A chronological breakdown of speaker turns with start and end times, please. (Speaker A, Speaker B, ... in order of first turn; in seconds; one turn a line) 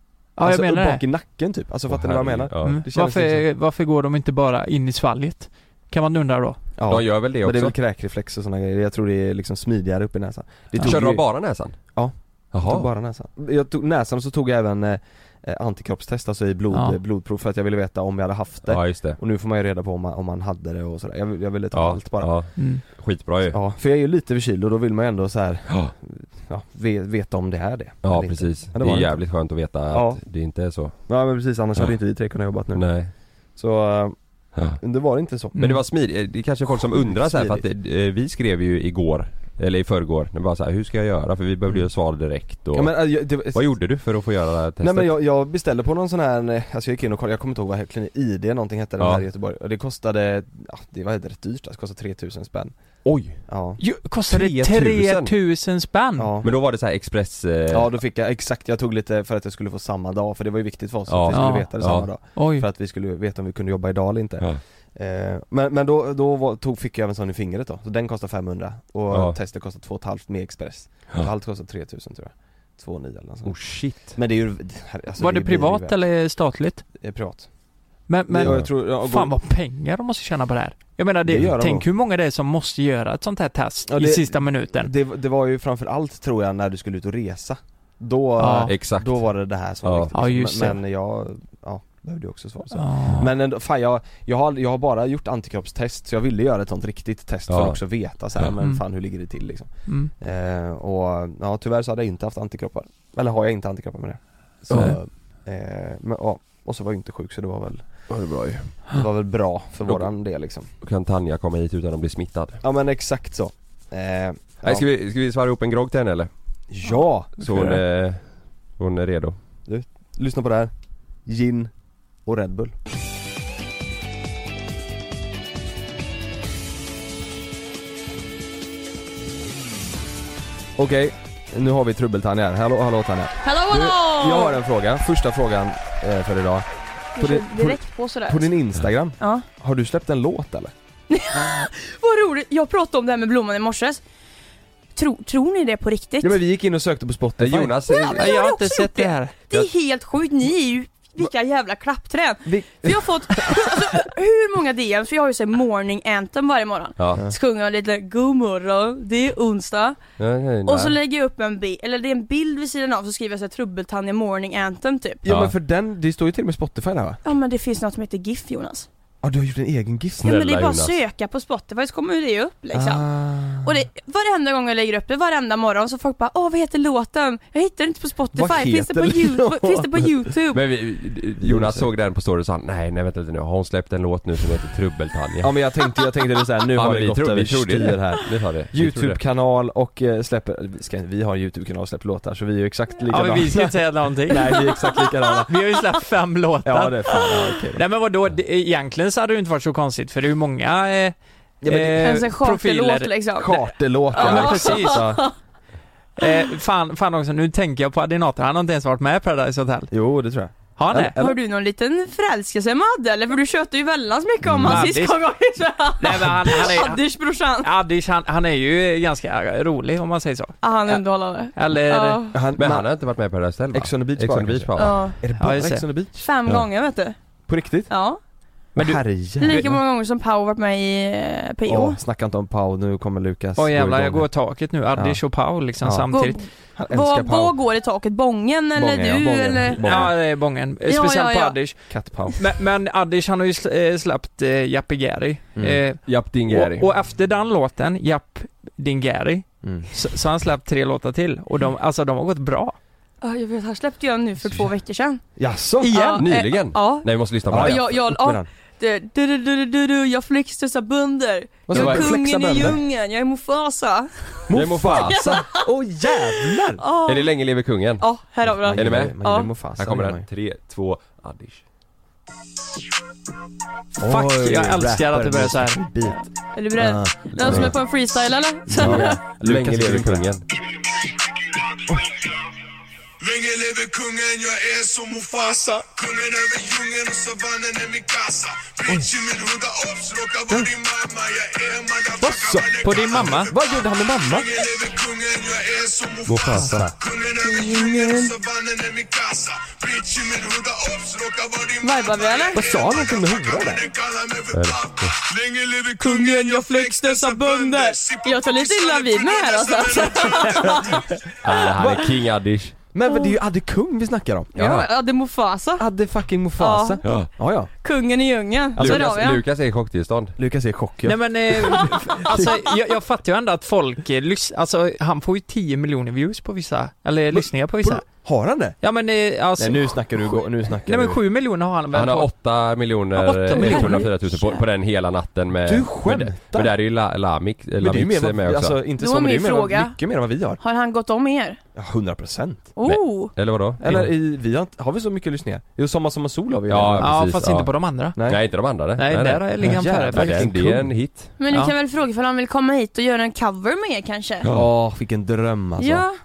Speaker A: 0.4-1.0
Speaker B: 0.4-3.5
Speaker C: 1.9-2.8
Speaker A: 2.6-6.6
Speaker B: 6.8-22.4
Speaker C: 6.9-7.8
Speaker C: 10.8-12.0
Speaker C: 12.5-12.9
Speaker A: 16.7-17.0
Speaker C: 18.6-19.2
Speaker C: 21.7-23.6
Speaker A: 22.6-22.8
Speaker B: 23.5-30.2
Speaker C: 25.7-25.9
Speaker C: 28.0-31.1
Speaker B: 31.1-35.8
Speaker C: 32.7-33.1
Speaker C: 34.5-34.8
Speaker C: 35.5-45.1
Speaker B: 37.0-37.6
Speaker B: 42.7-43.9
Speaker B: 44.8-52.7
Speaker C: 49.0-49.3
Speaker C: 53.0-53.5
Speaker B: 53.5-53.8
Speaker A: 53.8-56.3
Speaker C: 54.3-55.4
Speaker B: 56.2-56.5
Speaker C: 56.4-58.0
Speaker B: 57.7-76.0
Speaker C: 61.1-62.1
Speaker A: 61.3-62.7
Speaker C: 69.1-69.4
Speaker C: 73.5-74.2
Speaker A: 75.2-76.8
Speaker B: 77.0-77.5
Speaker A: 78.1-84.9
Speaker B: 78.3-79.3
Speaker B: 81.3-81.8
Speaker B: 83.9-108.1
Speaker A: 88.4-88.7
Speaker C: 88.7-90.1
Speaker A: 90.1-90.8
Speaker A: 92.8-93.3
Speaker C: 97.5-97.8
Speaker A: 99.9-100.1
Speaker C: 104.7-105.0
Speaker A: 104.7-105.0
Speaker C: 108.1-108.8
Speaker B: 108.9-110.7
Speaker C: 109.8-110.1
Speaker C: 110.8-112.6
Speaker B: 112.6-114.8
Speaker C: 114.7-116.3
Speaker B: 116.7-117.8
Speaker C: 117.4-118.2
Speaker C: 118.8-119.4
Speaker B: 119.7-121.7
Speaker B: 122.2-122.7
Speaker B: 130.8-136.7
Speaker D: 133.4-134.6
Speaker D: 137.2-138.5
Speaker B: 137.2-140.7
Speaker D: 139.2-139.4
Speaker D: 141.1-144.0
Speaker D: 144.9-146.4
Speaker B: 146.2-147.8
Speaker C: 147.4-148.3
Speaker D: 147.9-160.0
Speaker A: 148.2-149.4
Speaker B: 152.5-153.8
Speaker C: 160.2-161.0
Speaker D: 160.6-165.2
Speaker B: 165.2-167.2
Speaker C: 165.2-165.5
Speaker D: 167.2-168.9
Speaker B: 169.2-170.3
Speaker C: 170.2-171.0
Speaker D: 170.2-180.6
Speaker B: 172.7-173.7
Speaker B: 178.3-180.1
Speaker C: 180.5-185.6
Speaker B: 181.4-181.9
Speaker B: 185.4-195.5
Speaker C: 186.7-189.2
Speaker A: 193.1-194.7
Speaker A: 195.5-197.2
Speaker B: 196.6-197.8
Speaker A: 197.8-203.1
Speaker B: 201.6-202.1
Speaker D: 202.0-205.3
Speaker B: 203.4-205.2
Speaker A: 204.1-205.2
Speaker A: 206.2-209.9
Speaker B: 209.9-211.4
Speaker A: 210.8-211.2
Speaker D: 211.2-217.7
Speaker A: 214.6-217.0
Speaker A: 217.6-221.0
Speaker D: 220.6-222.3
Speaker A: 221.5-222.2
Speaker B: 222.3-222.9
Speaker C: 222.6-225.1
Speaker B: 223.7-226.2
Speaker D: 224.8-225.2
Speaker A: 225.4-225.8
Speaker D: 226.2-227.2
Speaker B: 227.5-227.9
Speaker D: 227.9-228.2
Speaker A: 228.8-229.0
Speaker B: 228.8-229.8
Speaker D: 229.4-232.0
Speaker B: 231.7-234.3
Speaker A: 233.6-236.4
Speaker B: 234.9-235.2
Speaker B: 235.8-237.6
Speaker D: 236.1-240.1
Speaker B: 238.8-240.1
Speaker A: 239.8-252.8
Speaker D: 240.9-241.8
Speaker B: 241.9-242.4
Speaker C: 246.0-246.9
Speaker B: 249.6-249.9
Speaker D: 253.2-255.2
Speaker B: 255.4-256.2
Speaker D: 255.8-264.4
Speaker A: 255.8-256.2
Speaker C: 256.2-258.0
Speaker B: 257.5-258.5
Speaker B: 261.7-262.8
Speaker C: 261.7-262.1
Speaker B: 264.5-266.8
Speaker C: 264.5-265.4
Speaker D: 264.9-265.6
Speaker D: 266.8-267.3
Speaker C: 267.0-268.1
Speaker D: 268.0-269.5
Speaker B: 268.5-270.3
Speaker C: 268.7-271.6
Speaker B: 274.0-277.8
Speaker A: 274.0-275.8
Speaker D: 276.1-279.2
Speaker C: 277.3-277.8
Speaker B: 278.7-280.3
Speaker C: 278.7-280.4
Speaker E: 283.5-285.5
Speaker E: 286.0-293.0
Speaker B: 288.9-289.1
Speaker B: 292.2-294.6
Speaker A: 292.8-293.6
Speaker E: 294.8-296.2
Speaker C: 296.2-296.9
Speaker B: 296.3-297.0
Speaker D: 297.3-298.4
Speaker E: 298.5-301.7
Speaker D: 301.8-302.6
Speaker B: 302.5-303.9
Speaker C: 304.5-305.1
Speaker D: 305.9-311.0
Speaker B: 310.4-311.0
Speaker C: 311.4-312.8
Speaker B: 312.9-314.9
Speaker D: 313.1-313.4
Speaker D: 314.6-315.9
Speaker B: 315.8-317.7
Speaker D: 316.6-319.4
Speaker C: 317.0-317.3
Speaker B: 318.8-319.1
Speaker C: 318.8-320.4
Speaker B: 320.4-322.7
Speaker A: 321.1-328.2
Speaker B: 327.3-328.8
Speaker A: 328.8-332.3
Speaker B: 329.6-331.2
Speaker C: 331.9-338.8
Speaker A: 333.1-334.1
Speaker B: 333.5-334.0
Speaker B: 335.6-336.7
Speaker B: 337.8-340.6
Speaker D: 339.0-341.6
Speaker B: 341.8-342.7
Speaker D: 342.8-343.3
Speaker C: 342.8-344.1
Speaker B: 343.8-347.1
Speaker C: 346.7-351.3
Speaker A: 347.0-348.2
Speaker B: 348.2-348.4
Speaker A: 348.9-350.8
Speaker B: 349.6-350.9
Speaker D: 351.4-354.5
Speaker C: 354.4-354.7
Speaker B: 354.5-356.1
Speaker D: 355.8-356.1